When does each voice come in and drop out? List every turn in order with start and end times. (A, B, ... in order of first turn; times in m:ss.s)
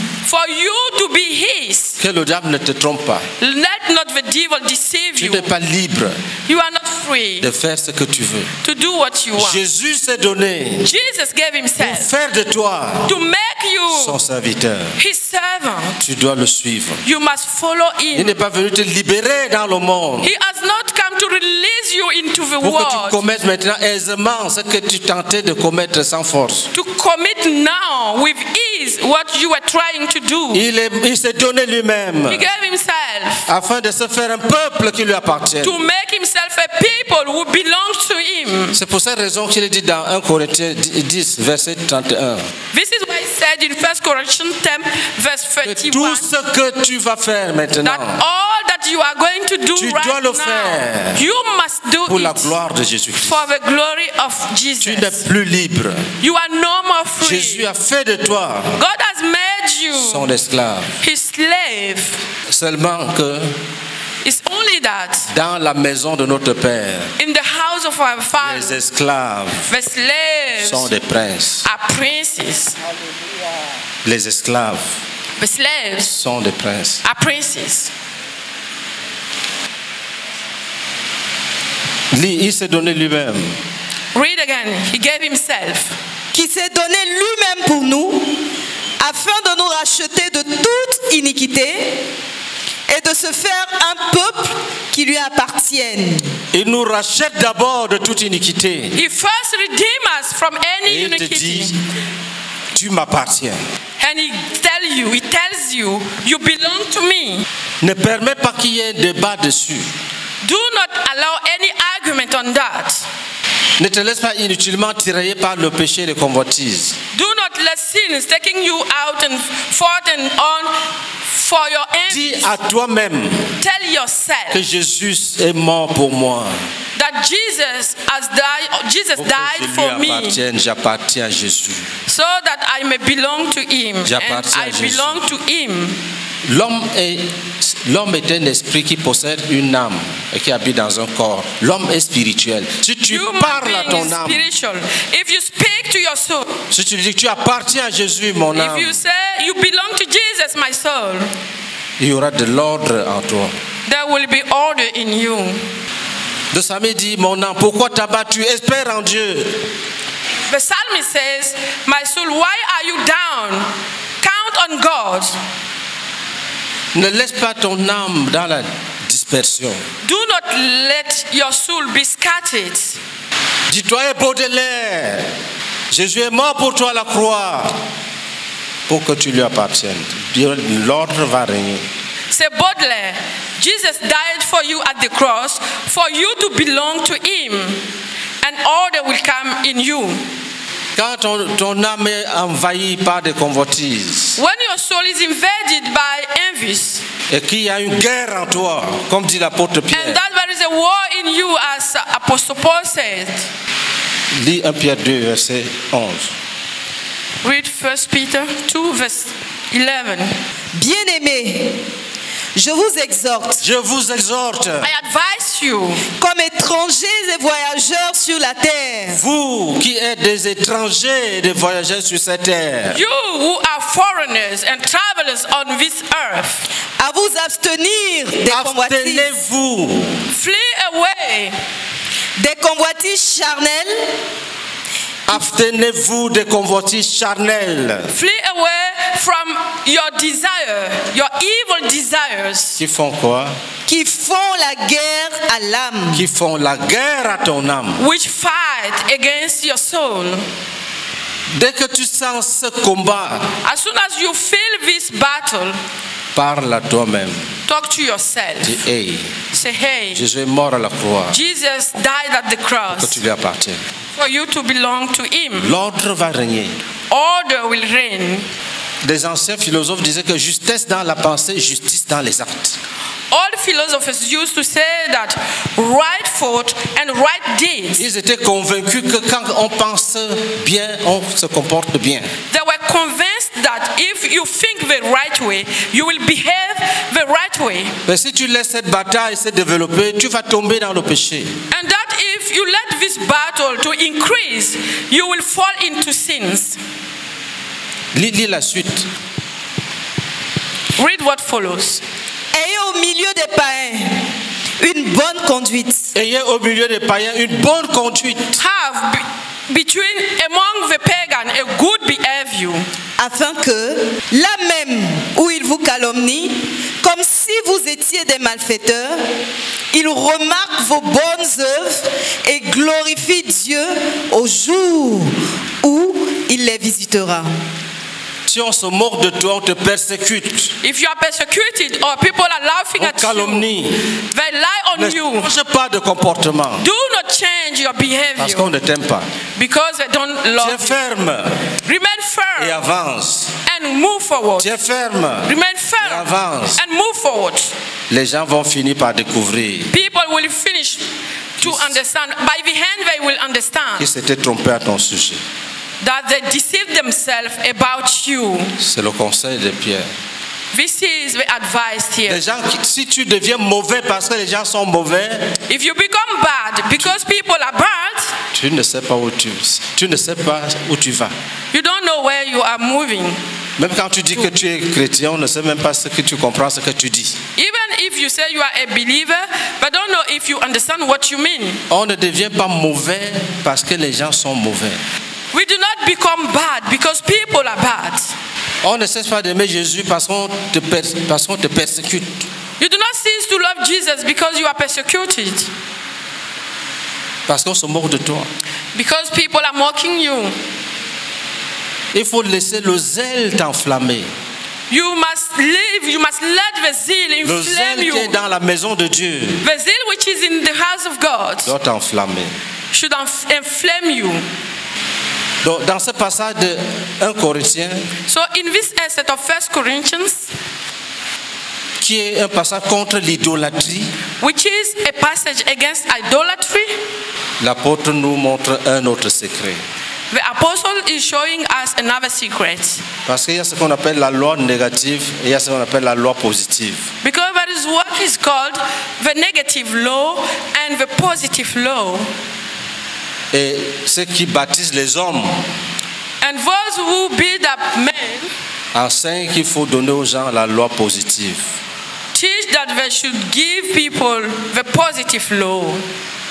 0:00.2-0:02.0 A
0:02.0-0:03.3 B
0:03.4-0:05.5 A
0:05.2-0:06.2 B
0:06.5-0:07.5 A
0:07.4-0:08.5 B
0:08.6-0:09.6 A
0:09.4-0:10.9 B
0:10.8-0:12.1 A
0:11.8-0:13.2 B
0:13.0-0:14.2 A
0:13.9-0:15.0 B
0:15.0-0:16.0 A
0:16.0-0:17.0 B
0:17.0-0:18.4 A
0:18.1-0:20.3 B
0:20.2-0:23.2 A
0:22.6-0:26.7 B
0:26.7-0:30.6 A
0:30.5-0:32.5 B
0:32.3-0:33.5 A
0:33.4-0:35.8 B
0:35.6-0:38.8 A
0:38.7-0:42.5 B
0:42.7-0:46.3 A
0:45.6-0:48.2 B
0:47.8-0:52.5 A
0:49.7-0:51.2 B
0:52.1-0:53.5 B
0:53.2-0:55.2 A
0:54.8-0:56.1 B
0:56.2-0:57.7 A
0:57.2-0:58.8 B
0:58.8-1:00.3 A
0:59.9-1:00.9 B
1:01.0-1:02.2 A
1:02.5-1:03.6 B
1:04.2-1:05.3 A
1:05.3-1:07.1 B
1:07.2-1:08.8 A
1:08.4-1:09.7 B
1:09.7-1:11.0 A
1:10.6-1:11.7 B
1:11.6-1:12.8 A
1:14.0-1:15.0 B
1:15.4-1:16.2 A
1:16.1-1:17.0 B
1:17.0-1:17.9 A
1:22.1-1:23.6 B
1:24.1-1:26.0 A
1:26.3-1:28.4 C
1:29.0-1:32.0 C
1:32.9-1:36.3 C
1:36.5-1:39.0 B
1:38.9-1:41.7 A
1:40.8-1:41.8 B
1:42.7-1:43.6 B
1:44.0-1:47.4 A
1:47.8-1:49.9 B
1:50.4-1:53.0 A
1:53.8-1:57.0 B
1:57.1-2:02.5 A
2:02.1-2:03.5 B
2:03.6-2:04.6 A
2:04.5-2:06.6 B
2:07.0-2:10.4 A
2:09.2-2:11.9 B
2:12.1-2:16.0 A
2:14.0-2:15.2 B
2:16.4-2:24.4 B
2:23.1-2:26.6 A
2:26.7-2:29.0 B
2:28.5-2:31.3 A
2:32.0-2:33.5 B
2:33.8-2:35.6 A
2:36.5-2:39.6 B
2:40.5-2:43.7 A
2:44.2-2:45.4 A
2:46.9-2:49.8 B
2:50.0-2:53.0 A
2:53.7-2:55.3 B
2:55.9-2:57.8 B
2:58.9-3:01.8 B
3:02.3-3:07.8 A
3:08.4-3:10.2 A
3:10.9-3:14.4 B
3:14.4-3:17.0 A
3:17.3-3:20.2 B
3:19.9-3:23.4 A
3:24.3-3:26.3 B
3:27.4-3:30.4 A
3:30.7-3:31.8 C
3:32.5-3:33.6 C
3:33.6-3:34.9 B
3:34.8-3:36.0 A
3:36.2-3:39.2 C
3:39.1-3:43.0 B
3:42.9-3:46.6 A
3:47.0-3:49.3 C
3:48.5-3:50.3 B
3:50.3-3:51.6 A
3:52.4-3:54.1 C
3:55.3-3:58.1 B
3:58.1-4:02.8 A
4:02.8-4:03.6 B
4:03.8-4:06.2 C
4:06.1-4:08.0 B
4:08.0-4:10.4 A
4:11.5-4:13.5 B
4:13.6-4:15.8 A
4:16.3-4:17.5 B
4:17.7-4:18.8 A
4:18.6-4:19.3 B
4:19.5-4:20.2 A
4:20.1-4:21.4 B
4:21.3-4:23.2 A
4:22.9-4:23.8 B
4:24.1-4:25.7 A
4:25.6-4:26.8 B
4:27.1-4:28.4 A
4:29.0-4:32.8 B
4:33.3-4:38.0 A
4:38.0-4:42.3 B
4:42.5-4:48.0 A
4:48.0-4:51.5 B
4:51.7-4:56.8 A
4:58.1-4:59.1 B
5:01.0-5:02.0 A
5:02.5-5:04.2 C
5:04.8-5:06.1 C
5:06.1-5:08.6 B
5:08.6-5:12.8 A
5:13.2-5:19.2 C
5:19.9-5:27.5 C
5:28.4-5:30.7 B
5:30.8-5:35.5 A
5:33.0-5:34.0 B
5:34.9-5:36.8 B
5:36.8-5:38.7 A
5:38.4-5:39.3 B
5:39.6-5:41.0 A
5:40.6-5:41.6 B
5:41.8-5:42.8 A
5:42.6-5:43.5 B
5:43.6-5:44.7 A
5:44.6-5:46.8 B
5:45.4-5:47.7 A
5:48.1-5:49.9 B
5:49.9-5:51.0 A
5:51.6-5:52.0 B
5:51.6-5:54.1 A
5:54.0-5:55.4 B
5:56.0-5:58.7 A
5:58.8-6:00.1 B
6:00.7-6:02.4 A
6:02.2-6:05.6 B
6:05.7-6:08.3 A
6:08.5-6:11.3 B
6:11.7-6:13.4 A
6:13.8-6:17.4 B
6:17.6-6:21.8 A
6:21.9-6:25.0 B
6:25.5-6:28.4 A
6:28.8-6:32.5 B
6:32.8-6:35.7 A
6:37.5-6:38.5 B
6:38.9-6:40.6 A
6:42.1-6:44.3 B
6:44.9-6:48.3 A
6:47.4-6:49.6 B
6:49.6-6:51.7 A
6:51.6-6:52.5 B
6:52.9-6:54.4 A
6:55.6-6:58.1 B
6:58.3-7:00.5 A
7:02.0-7:04.1 B
7:04.4-7:07.0 A
7:07.6-7:09.8 B
7:10.3-7:13.0 A
7:13.2-7:17.1 B
7:17.2-7:22.3 A
7:23.5-7:25.6 B
7:26.4-7:28.5 A
7:28.9-7:31.6 B
7:32.3-7:36.0 A